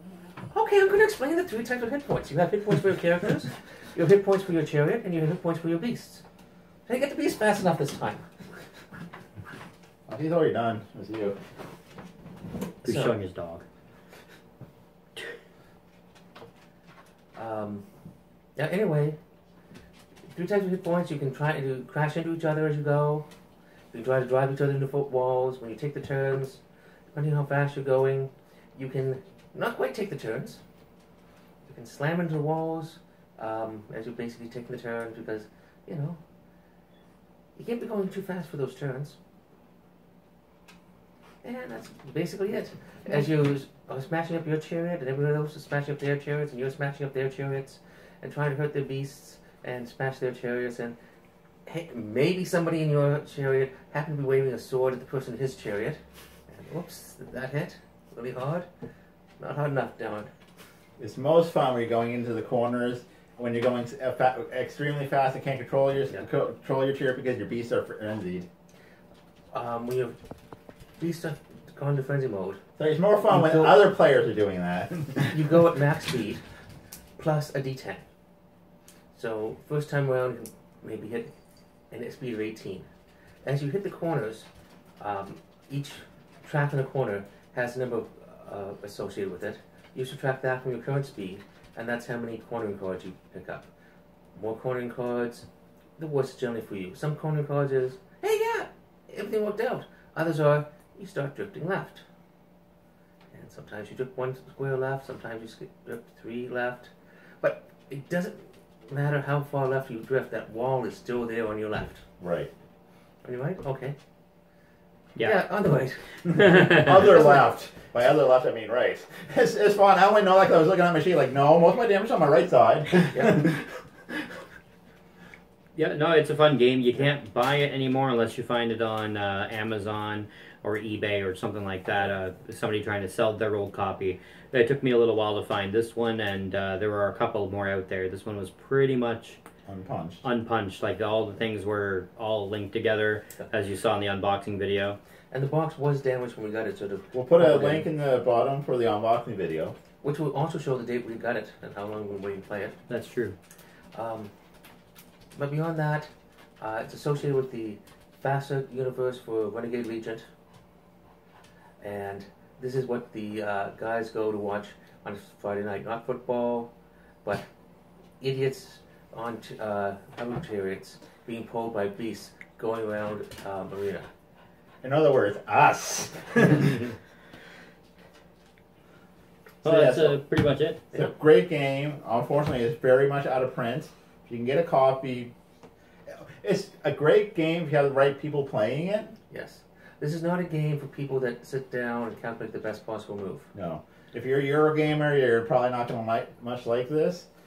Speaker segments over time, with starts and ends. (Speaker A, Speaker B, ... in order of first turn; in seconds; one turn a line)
Speaker A: 0.5-6.2
Speaker A: 6.9-8.3
Speaker B: 10.1-11.4
Speaker A: 12.8-13.2
Speaker C: 12.8-13.6
Speaker A: 17.4-17.8
Speaker A: 18.6-19.2
Speaker A: 20.3-23.3
Speaker A: 23.9-26.6
Speaker A: 27.1-30.6
Speaker A: 31.6-36.2
Speaker A: 37.6-39.2
Speaker A: 41.4-51.0
Speaker A: 51.7-58.7
Speaker A: 59.4-60.3
Speaker B: 61.0-68.5
Speaker A: 69.5-70.2
Speaker A: 71.0-72.6
Speaker B: 72.8-75.4
Speaker A: 73.2-73.9
Speaker A: 75.3-76.4
Speaker A: 77.2-78.0
Speaker A: 79.1-81.3
Speaker A: 81.9-82.9
Speaker A: 83.4-84.5
Speaker A: 85.0-93.7
Speaker A: 94.3-95.5
Speaker A: 96.0-102.0
Speaker A: 103.3-112.0
Speaker B: 112.2-112.5
Speaker A: 113.2-114.0
Speaker A: 115.2-116.0
Speaker C: 116.3-117.1
Speaker B: 116.6-123.7
Speaker A: 116.8-117.5
Speaker A: 123.1-123.5
Speaker C: 125.8-139.4
Speaker B: 139.7-140.2
Speaker C: 140.2-145.0
Speaker A: 145.3-147.9
Speaker B: 147.1-149.8
Speaker A: 150.0-152.8
Speaker C: 152.9-153.4
Speaker A: 153.9-154.3
Speaker A: 155.3-156.1
Speaker A: 156.6-160.2
Speaker A: 161.8-166.7
Speaker A: 168.2-174.1
Speaker B: 174.8-176.9
Speaker B: 179.6-180.2
Speaker C: 179.6-180.8
Speaker B: 180.9-185.3
Speaker B: 186.1-189.2
Speaker A: 189.3-193.5
Speaker B: 193.5-197.3